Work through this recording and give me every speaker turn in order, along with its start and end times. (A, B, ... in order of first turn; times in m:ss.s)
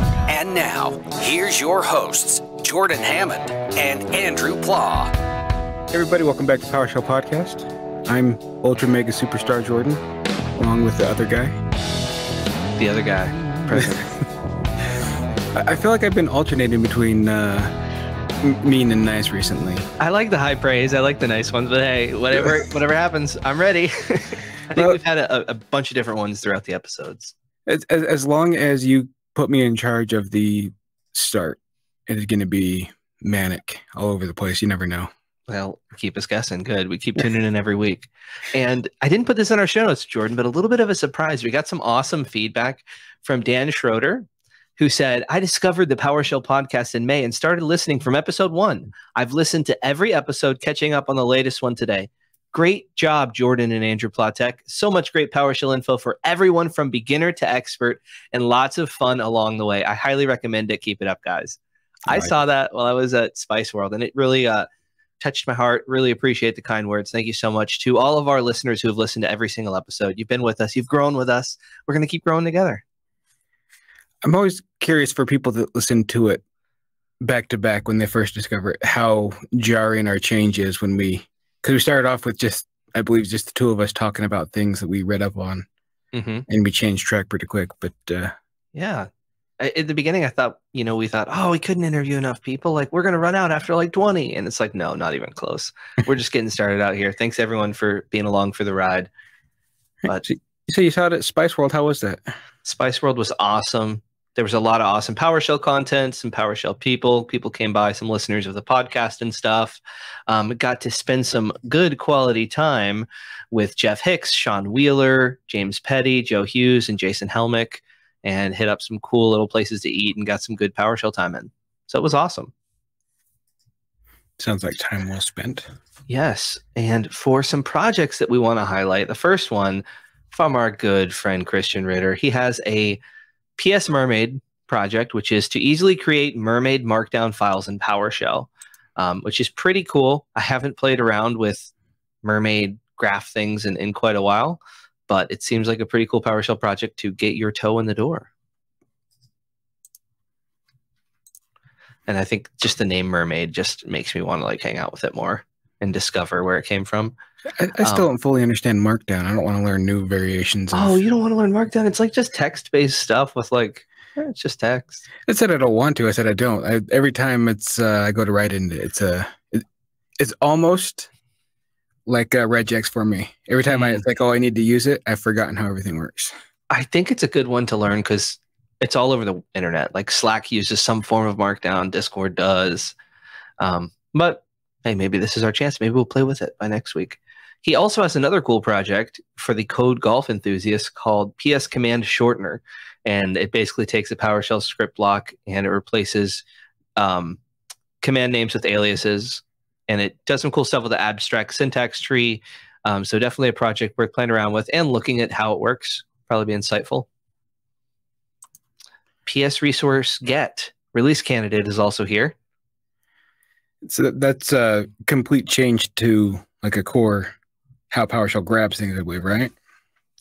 0:00.3-0:05.1 A
0:05.9-0:10.0 B
0:10.6-0:11.5 B
0:12.8-0:14.0 C
0:13.7-0:14.2 B
0:15.5-0:17.7 B
0:18.4-0:19.9 B
0:20.0-0:27.3 C
0:27.7-0:35.1 B
0:35.5-0:44.3 C
0:44.8-1:04.7 C
1:05.2-1:12.8 C
1:14.2-1:16.4 B
1:17.2-1:25.7 B
1:26.1-1:26.4 C
1:26.5-1:28.3 B
1:28.7-1:29.1 C
1:29.6-1:39.1 C
1:40.0-1:42.2 B
1:42.6-2:02.5 C
2:04.4-2:05.7 B
2:06.1-2:13.0 C
2:13.6-2:21.7 C
2:22.2-2:28.3 C
2:32.1-2:37.1 C
2:37.6-2:41.0 B
2:40.7-2:45.0 C
2:45.3-2:49.6 B
2:50.2-2:51.1 B
2:52.0-2:56.3 B
2:53.7-2:54.0 C
2:56.7-3:02.9 C
3:03.6-3:16.4 C
3:17.0-3:17.4 C
3:18.0-3:27.1 C
3:29.2-3:32.3 C
3:33.8-3:37.3 B
3:37.9-3:39.5 B